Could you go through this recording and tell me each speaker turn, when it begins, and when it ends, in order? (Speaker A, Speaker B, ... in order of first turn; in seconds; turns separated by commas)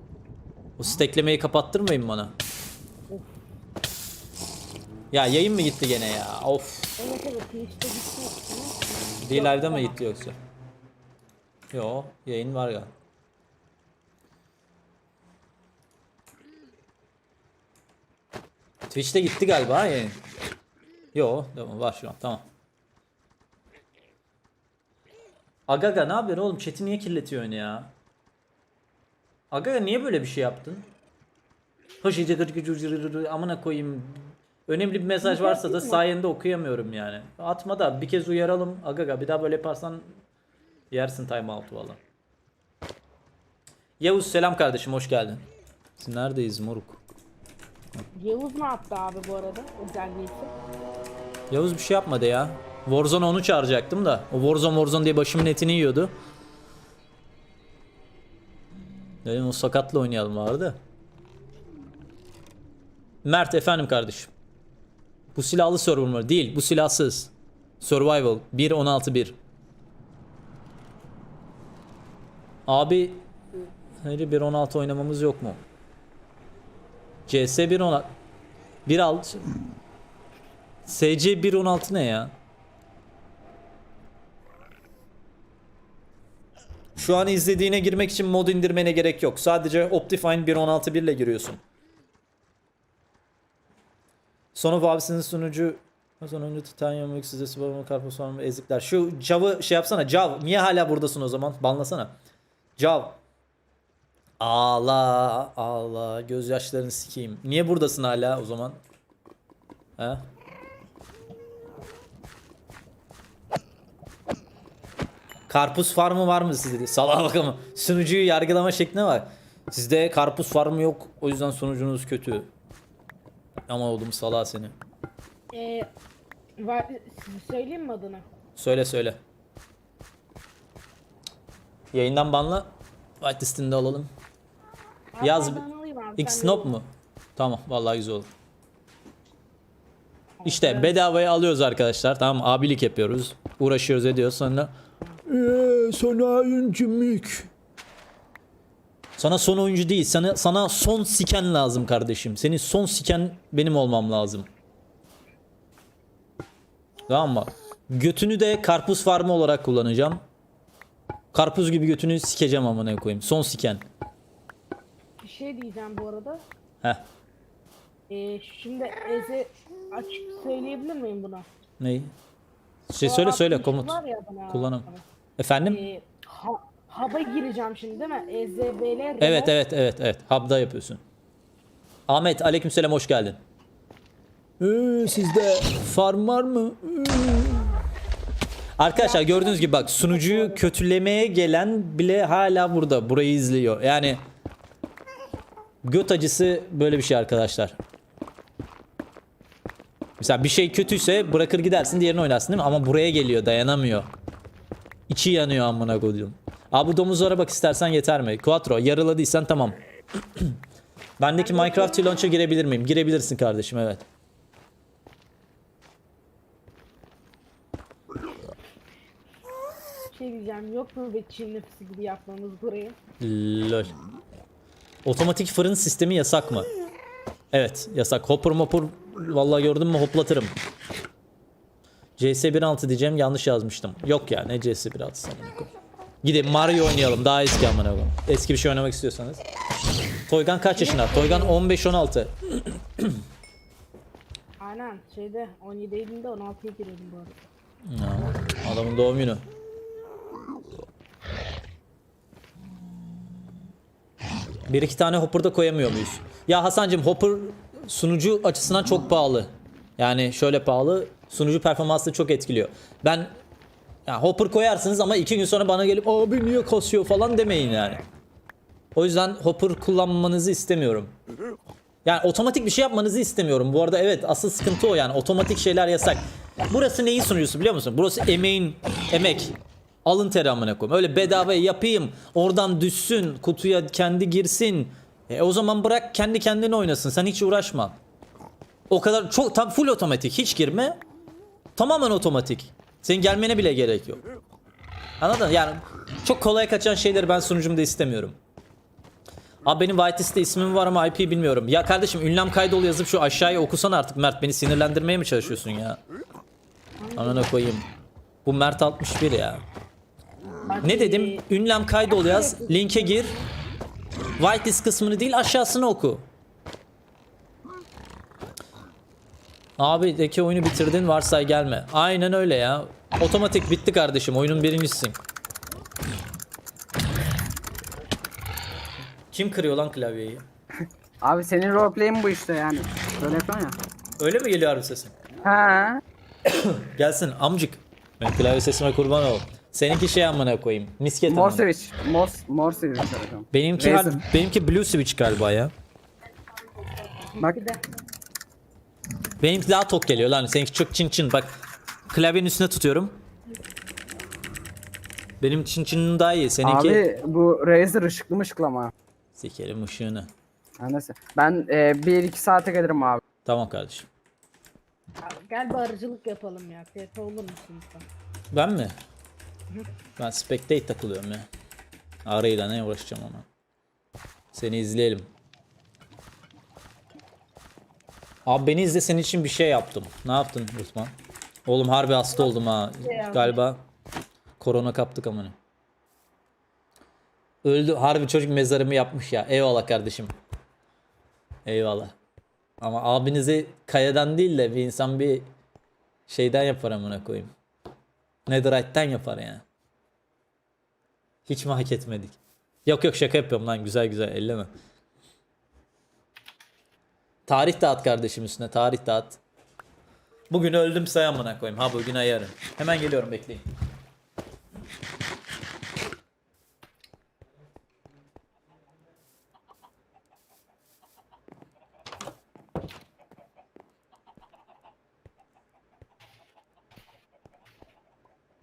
Speaker A: 0.8-2.3, Speaker B: 3.1-3.4, Speaker A: 5.1-6.9, Speaker B: 7.0-10.0, Speaker A: 9.2-10.3, Speaker A: 11.7-12.9, Speaker A: 18.9-20.2, Speaker A: 21.1-22.4, Speaker A: 25.7-27.9, Speaker A: 29.5-30.8, Speaker A: 32.0-40.0, Speaker B: 35.2-36.0, Speaker A: 40.9-42.0, Speaker A: 44.0-45.4, Speaker A: 46.0-47.0, Speaker B: 48.1-50.5, Speaker A: 51.5-56.1, Speaker A: 59.2-60.8, Speaker A: 63.2-64.3, Speaker A: 65.3-69.3, Speaker A: 72.7-73.2, Speaker A: 74.0-75.6, Speaker A: 77.3-78.1, Speaker A: 78.8-79.4, Speaker A: 80.8-82.3, Speaker A: 87.0-91.6, Speaker A: 94.5-102.1, Speaker A: 102.8-103.2, Speaker A: 104.4-108.8, Speaker A: 115.5-122.5, Speaker A: 123.7-124.7, Speaker B: 125.5-125.9, Speaker B: 126.6-128.2, Speaker A: 128.6-129.2, Speaker A: 131.9-132.7, Speaker A: 133.2-134.1, Speaker B: 135.1-136.8, Speaker A: 135.2-135.6, Speaker A: 136.2-138.3, Speaker B: 140.4-140.9, Speaker A: 140.4-144.7, Speaker A: 145.2-147.5, Speaker A: 149.2-154.4, Speaker A: 157.1-160.2, Speaker A: 161.3-163.8, Speaker B: 165.2-166.4, Speaker B: 168.1-171.4, Speaker A: 171.8-172.1, Speaker A: 172.9-174.0, Speaker B: 173.0-175.0, Speaker A: 174.5-174.9, Speaker A: 175.4-175.8, Speaker B: 175.6-179.5, Speaker A: 179.2-181.0, Speaker A: 182.1-183.4, Speaker A: 184.6-187.8, Speaker A: 188.8-194.2, Speaker B: 188.9-190.7, Speaker A: 195.8-197.8, Speaker A: 200.2-204.1, Speaker A: 205.1-209.8, Speaker A: 211.2-214.0, Speaker B: 211.4-212.1, Speaker B: 220.1-223.0, Speaker A: 223.2-223.9, Speaker A: 225.0-226.7, Speaker A: 227.5-230.5, Speaker A: 232.2-235.7, Speaker A: 236.2-239.4, Speaker A: 240.3-243.2, Speaker B: 240.7-241.6, Speaker B: 244.6-247.4, Speaker A: 247.9-249.4, Speaker A: 254.7-263.3, Speaker A: 264.1-268.0, Speaker A: 268.9-271.1, Speaker A: 272.0-288.0, Speaker A: 288.9-291.0, Speaker A: 291.8-294.2, Speaker A: 295.2-298.4, Speaker A: 299.6-306.0, Speaker B: 307.0-307.5, Speaker A: 307.1-307.9, Speaker A: 308.4-309.6, Speaker B: 310.6-311.4, Speaker A: 310.8-313.4, Speaker B: 312.1-313.4, Speaker A: 314.4-316.2, Speaker A: 319.8-325.1, Speaker A: 329.3-330.4, Speaker C: 331.2-333.7, Speaker A: 334.2-335.1, Speaker C: 335.5-336.0, Speaker A: 336.4-341.6, Speaker C: 341.3-344.2, Speaker A: 343.5-345.7, Speaker B: 347.3-347.8, Speaker A: 349.4-351.5, Speaker A: 352.1-353.1, Speaker A: 355.4-357.0, Speaker C: 356.6-358.9, Speaker A: 359.3-360.3, Speaker C: 360.8-363.2, Speaker A: 363.4-364.1, Speaker B: 365.2-368.1, Speaker A: 368.5-368.9, Speaker A: 370.2-371.4, Speaker A: 372.2-373.4, Speaker A: 374.5-375.3, Speaker A: 378.4-381.1, Speaker A: 381.6-383.8, Speaker B: 382.4-383.5, Speaker A: 384.6-385.5, Speaker A: 387.6-390.3, Speaker A: 391.6-392.1, Speaker A: 392.8-395.4, Speaker A: 396.3-397.5, Speaker A: 398.5-399.6, Speaker A: 401.5-404.7, Speaker A: 407.5-409.4, Speaker A: 410.5-413.6